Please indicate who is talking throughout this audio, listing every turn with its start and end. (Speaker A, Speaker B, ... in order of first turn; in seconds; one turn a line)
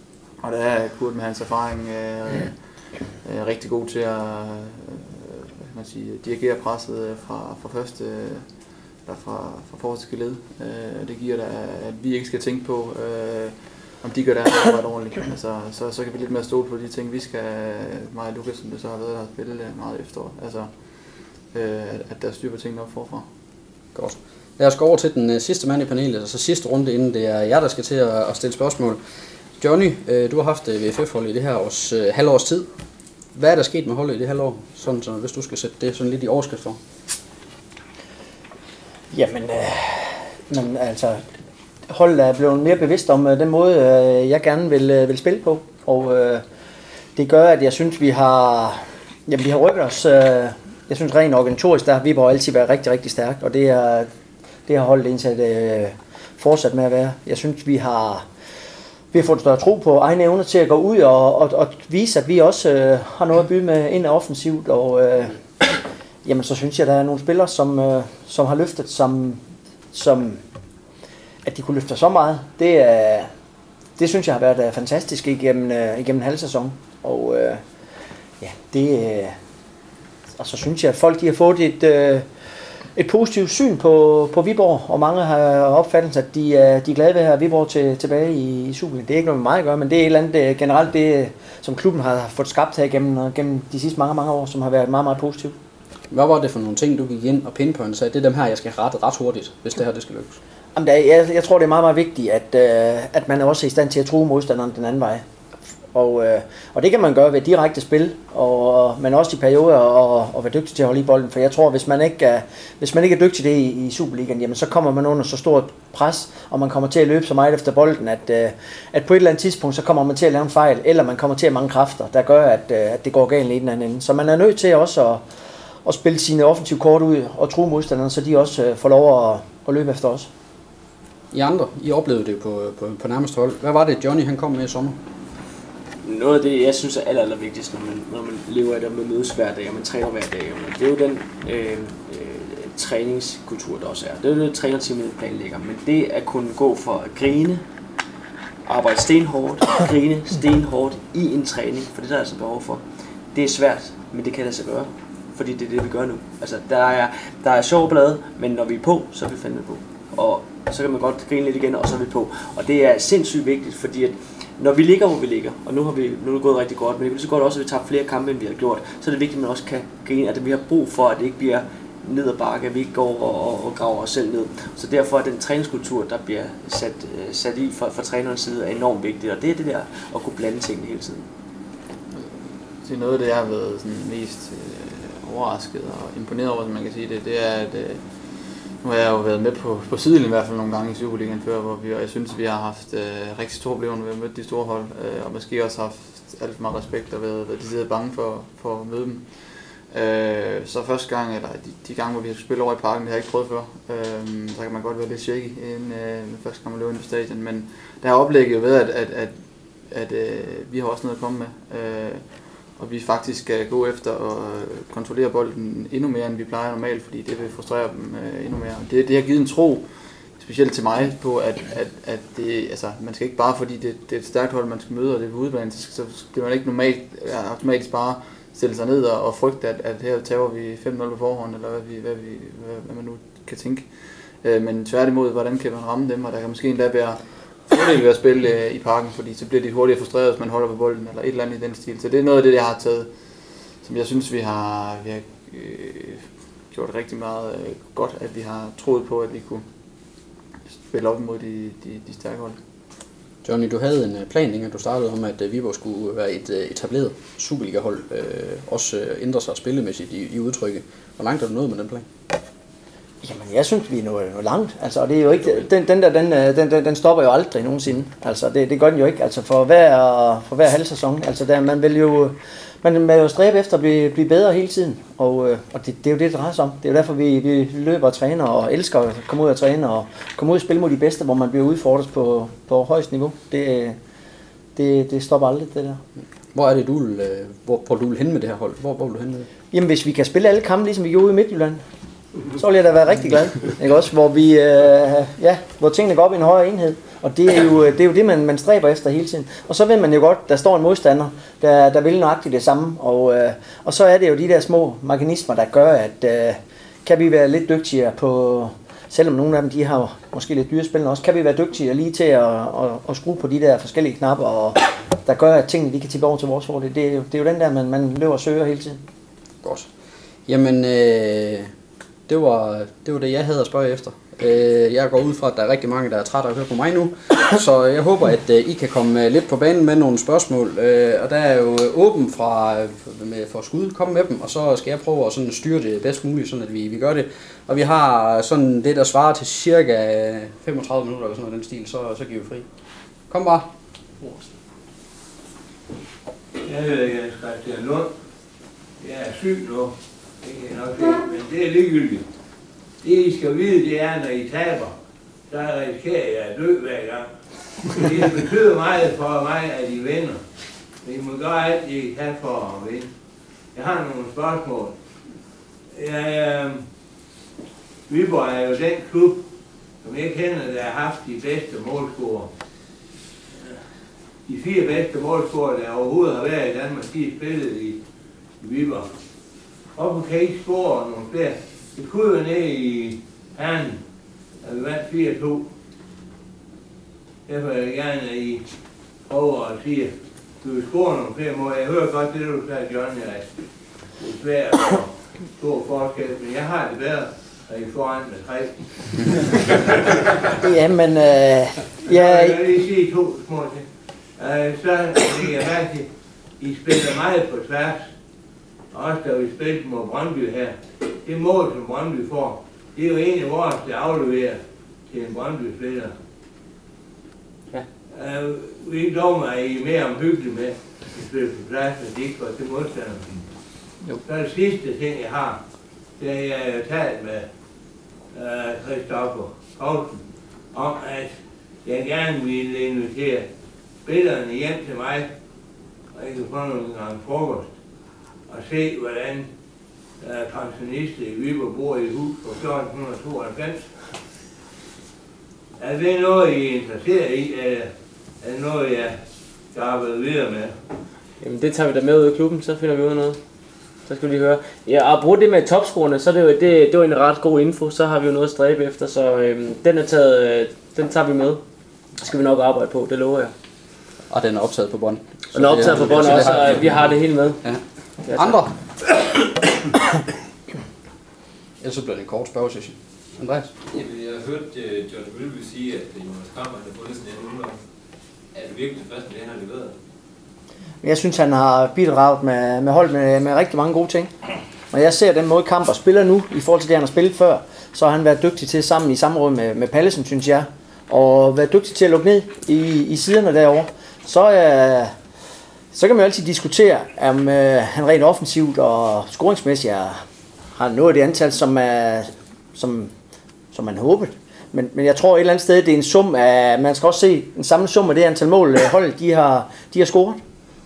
Speaker A: 0.4-23.3
Speaker B: 23.9-29.0
Speaker B: 29.6-32.7
Speaker B: 33.3-36.8
Speaker C: 39.1-41.2
Speaker C: 41.9-46.4
Speaker C: 47.1-54.1
Speaker C: 54.7-58.2
Speaker C: 59.1-69.4
Speaker C: 69.9-70.4
Speaker C: 71.4-73.3
Speaker C: 74.0-77.6
Speaker C: 78.4-79.4
Speaker C: 80.3-82.3
Speaker C: 82.9-95.5
Speaker B: 96.1-100.4
Speaker C: 100.7-105.2
Speaker C: 105.9-125.2
Speaker C: 125.8-130.3
Speaker B: 131.3-135.0
Speaker D: 136.0-147.6
Speaker D: 148.7-181.3
Speaker A: 182.1-233.9
Speaker A: 234.4-249.6
Speaker A: 250.8-252.6
Speaker B: 253.4-262.1
Speaker C: 263.2-284.0
Speaker C: 284.7-286.0
Speaker B: 286.5-289.5
Speaker C: 289.7-291.8
Speaker C: 292.5-319.0
Speaker B: 319.6-319.9
Speaker B: 320.4-321.7
Speaker B: 322.3-342.7
Speaker B: 343.3-343.7
Speaker E: 346.6-348.1
Speaker E: 349.0-352.3
Speaker E: 353.0-354.9
Speaker E: 355.5-360.4
Speaker E: 361.0-363.1
Speaker E: 363.7-364.9
Speaker E: 365.9-366.8
Speaker E: 368.1-369.4
Speaker E: 370.0-372.5
Speaker E: 373.5-373.8
Speaker E: 374.4-378.0
Speaker E: 378.6-379.1
Speaker E: 379.9-384.0
Speaker E: 384.6-385.7
Speaker E: 387.5-388.7
Speaker E: 389.2-393.5
Speaker E: 394.1-400.1
Speaker C: 400.6-402.6
Speaker E: 402.0-408.1
Speaker E: 408.9-416.1
Speaker E: 418.1-423.4
Speaker E: 424.2-425.6
Speaker E: 426.2-427.5
Speaker E: 428.3-433.5
Speaker E: 434.0-435.3
Speaker E: 436.1-437.7
Speaker E: 438.5-439.5
Speaker E: 440.2-444.1
Speaker E: 445.8-449.2
Speaker E: 449.7-450.7
Speaker D: 451.4-453.4
Speaker D: 454.1-461.6
Speaker D: 462.2-463.5
Speaker B: 464.3-469.1
Speaker D: 465.5-467.6
Speaker D: 468.2-468.6
Speaker B: 471.8-473.7
Speaker F: 473.9-477.8
Speaker F: 478.5-480.0
Speaker C: 481.0-484.3
Speaker C: 484.9-495.1
Speaker C: 495.9-500.2
Speaker C: 500.7-503.1
Speaker C: 503.7-510.4